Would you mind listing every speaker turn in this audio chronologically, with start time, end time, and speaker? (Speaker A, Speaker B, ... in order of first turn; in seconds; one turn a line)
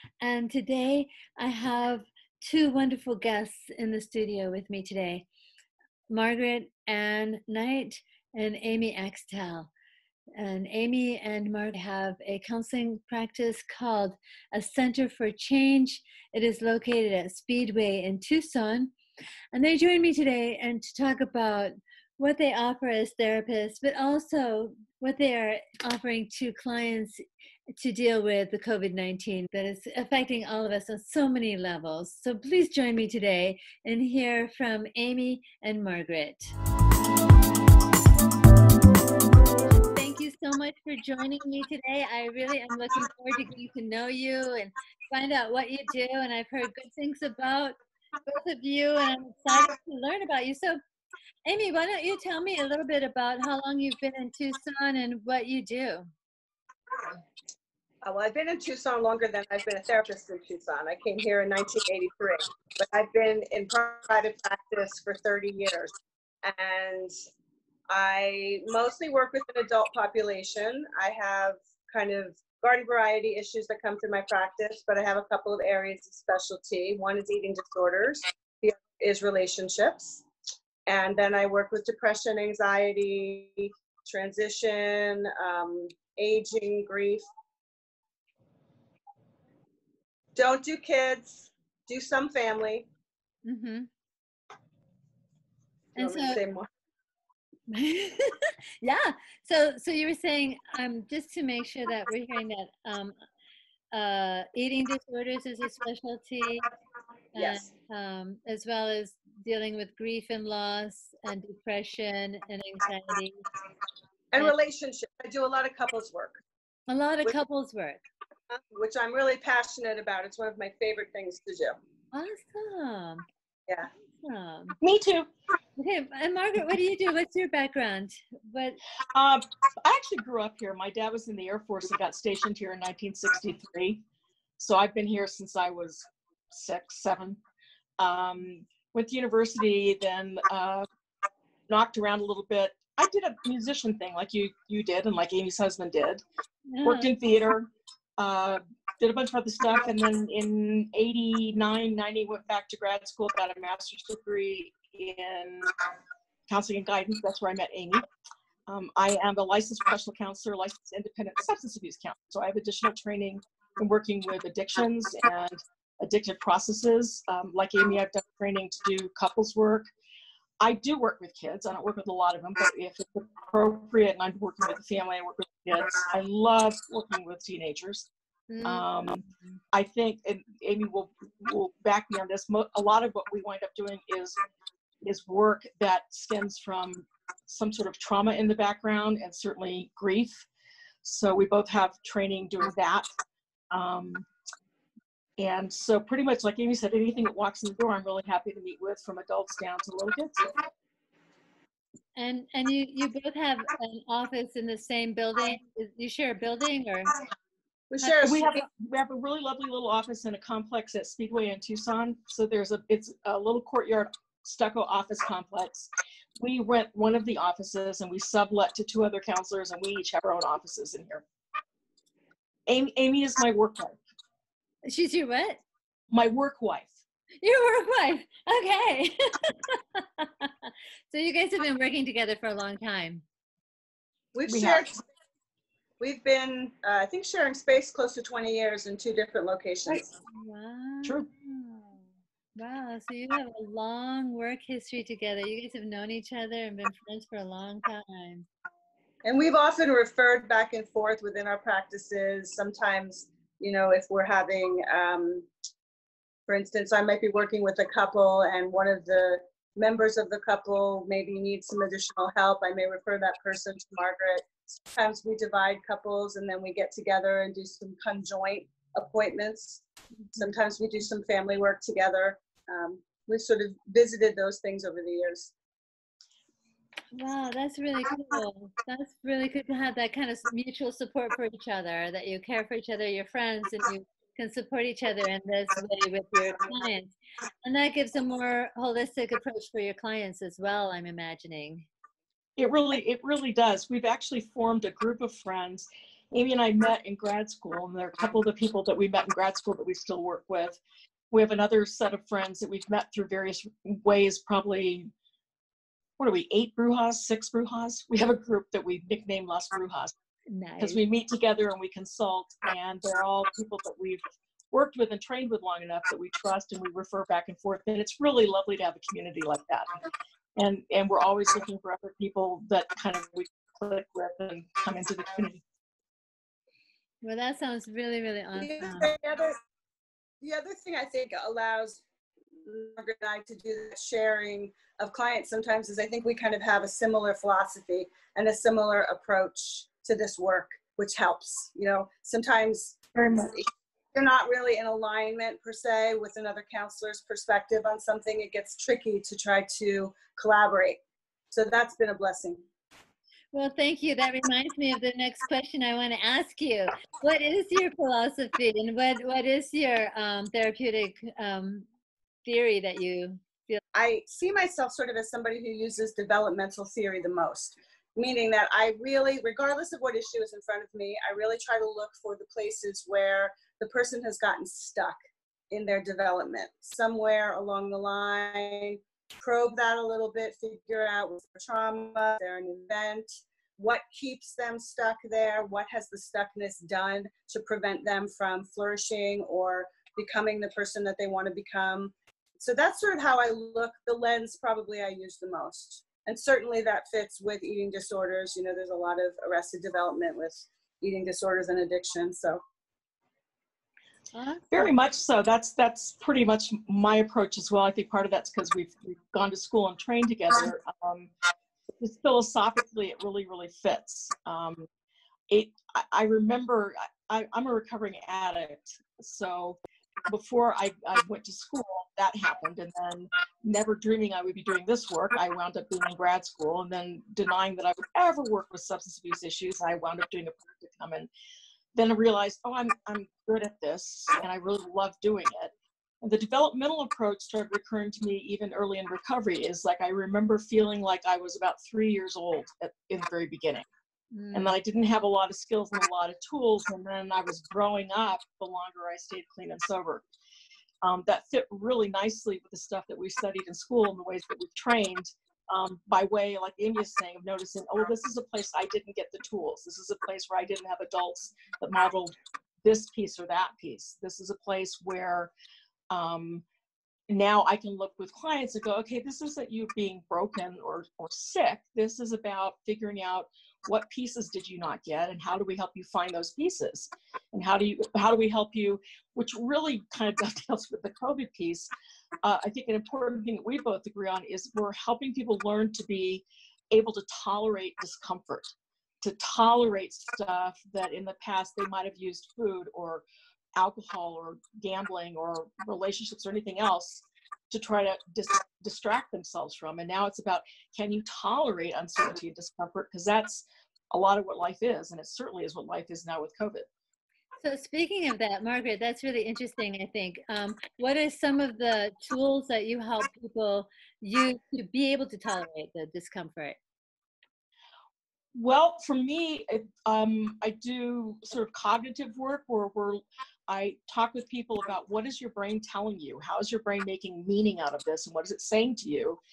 Speaker A: 0.2-5.3
Speaker A: 6.1-9.7
Speaker A: 10.4-18.9
Speaker A: 19.5-27.2
Speaker A: 27.8-36.5
Speaker A: 39.9-50.8
Speaker A: 51.5-56.1
Speaker B: 58.0-65.9
Speaker B: 66.4-67.1
Speaker B: 67.9-80.2
Speaker B: 80.9-87.2
Speaker B: 90.4-92.9
Speaker A: 93.4-93.9
Speaker A: 95.9-96.4
Speaker B: 96.0-96.7
Speaker A: 97.7-103.2
Speaker A: 103.9-106.7
Speaker B: 107.3-107.7
Speaker A: 107.3-113.5
Speaker B: 114.3-116.4
Speaker A: 116.9-118.0
Speaker B: 118.5-121.8
Speaker A: 122.1-123.2
Speaker A: 124.2-124.8
Speaker C: 124.8-125.3
Speaker A: 125.8-128.8
Speaker C: 129.1-134.0
Speaker C: 134.6-137.4
Speaker C: 138.0-140.8
Speaker C: 141.7-146.2
Speaker A: 146.7-147.1
Speaker C: 146.8-155.7
Speaker C: 156.5-158.1
Speaker C: 158.7-169.9
Speaker C: 170.6-178.1
Speaker A: 178.5-178.9
Speaker C: 178.6-184.4
Speaker C: 185.0-190.5
Speaker C: 191.0-193.1
Speaker C: 193.7-194.2
Speaker C: 195.4-200.7
Speaker A: 202.2-207.2
Speaker B: 207.9-208.5
Speaker A: 208.0-208.5
Speaker C: 208.2-221.2
Speaker C: 222.7-224.0
Speaker A: 224.8-225.6
Speaker C: 226.1-226.9
Speaker A: 227.4-233.2
Speaker B: 234.3-235.0
Speaker C: 234.5-234.8
Speaker B: 236.0-240.1
Speaker A: 239.9-242.0
Speaker A: 242.6-248.5
Speaker B: 249.2-255.5
Speaker B: 256.5-269.8
Speaker B: 270.4-275.5
Speaker A: 277.1-287.1
Speaker A: 287.6-291.9
Speaker C: 292.6-300.8
Speaker C: 301.3-305.1
Speaker C: 306.2-310.1
Speaker A: 310.5-311.0
Speaker C: 310.8-314.2
Speaker C: 314.7-319.9
Speaker C: 320.6-325.6
Speaker A: 327.2-329.1
Speaker B: 328.6-329.6
Speaker B: 330.4-332.0
Speaker B: 332.6-351.0
Speaker C: 343.1-343.4
Speaker B: 351.5-352.6
Speaker A: 353.5-361.9
Speaker A: 362.4-363.8
Speaker B: 363.9-375.1
Speaker B: 375.7-402.6
Speaker A: 404.3-404.9
Speaker C: 404.7-411.3
Speaker C: 412.0-414.9
Speaker C: 415.5-431.3
Speaker C: 431.9-443.8
Speaker A: 444.3-444.7
Speaker C: 444.5-450.2
Speaker C: 451.0-465.5
Speaker C: 466.1-466.6
Speaker C: 467.3-481.9
Speaker C: 482.4-493.2
Speaker C: 493.8-506.9
Speaker A: 507.6-516.8
Speaker C: 518.5-529.4